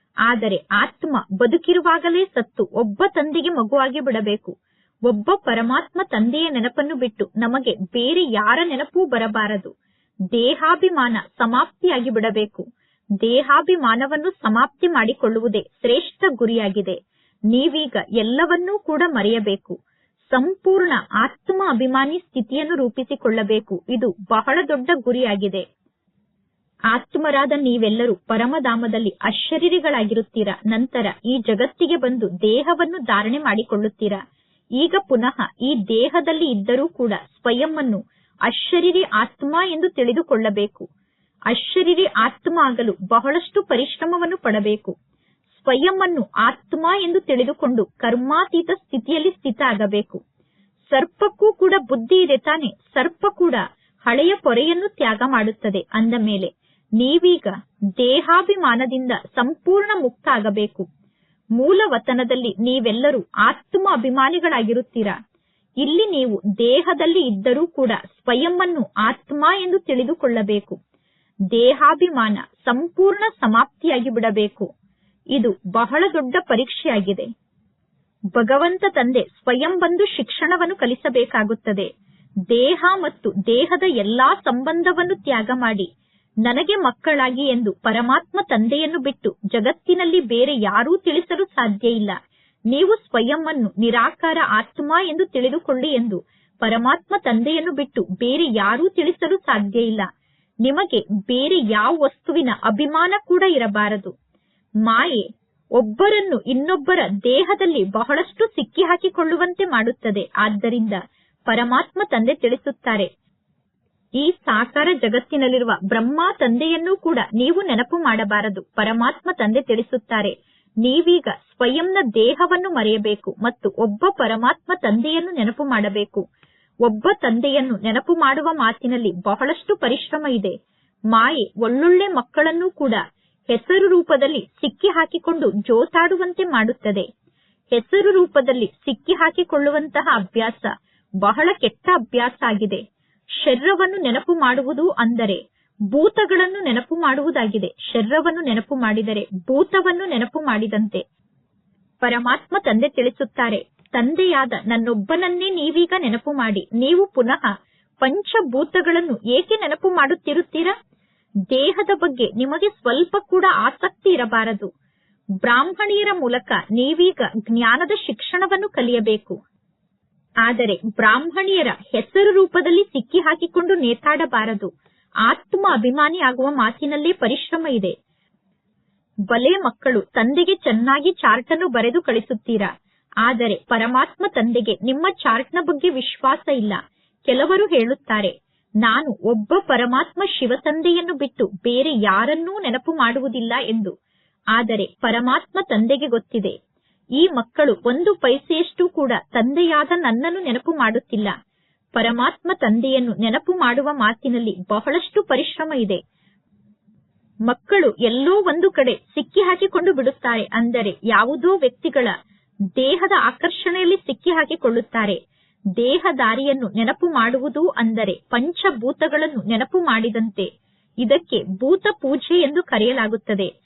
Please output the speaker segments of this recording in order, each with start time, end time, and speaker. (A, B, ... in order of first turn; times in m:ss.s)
0:00.3-0:04.5 A
0:05.1-0:09.7 A
0:10.3-0:12.6 A
0:13.2-0:17.0 A
0:17.5-0:19.8 A
0:20.3-0:25.6 A
0:26.9-0:34.2 A
0:34.8-0:40.8 A
0:41.5-0:44.9 A
0:45.6-0:50.2 A
0:50.9-1:00.8 A
1:01.6-1:05.2 A
1:05.8-1:10.8 A
1:11.5-1:14.7 A
1:15.3-1:17.3 A
1:18.3-1:21.9 A
1:22.5-1:25.9 A
1:26.4-1:32.2 A
1:32.7-1:40.1 A
1:40.6-1:44.1 A
1:44.8-1:45.2 A
1:45.8-1:51.0 A
1:51.5-1:53.1 A
1:54.2-2:06.2 A
2:06.8-2:10.5 A
2:11.1-2:13.0 A
2:13.5-2:17.1 A
2:17.7-2:20.7 A
2:21.2-2:22.8 A
2:23.4-2:25.4 A
2:25.9-2:31.0 A
2:32.0-2:37.5 A
2:38.0-2:40.7 A
2:41.5-2:44.7 A
2:45.4-2:49.4 A
2:50.4-2:54.7 A
2:55.3-2:57.9 A
2:59.3-3:02.7 A
3:03.2-3:13.9 A
3:14.5-3:16.5 A
3:17.2-3:21.3 A
3:22.0-3:26.0 A
3:27.5-3:32.1 A
3:32.8-3:35.2 A
3:35.8-3:40.5 A
3:41.0-3:43.5 A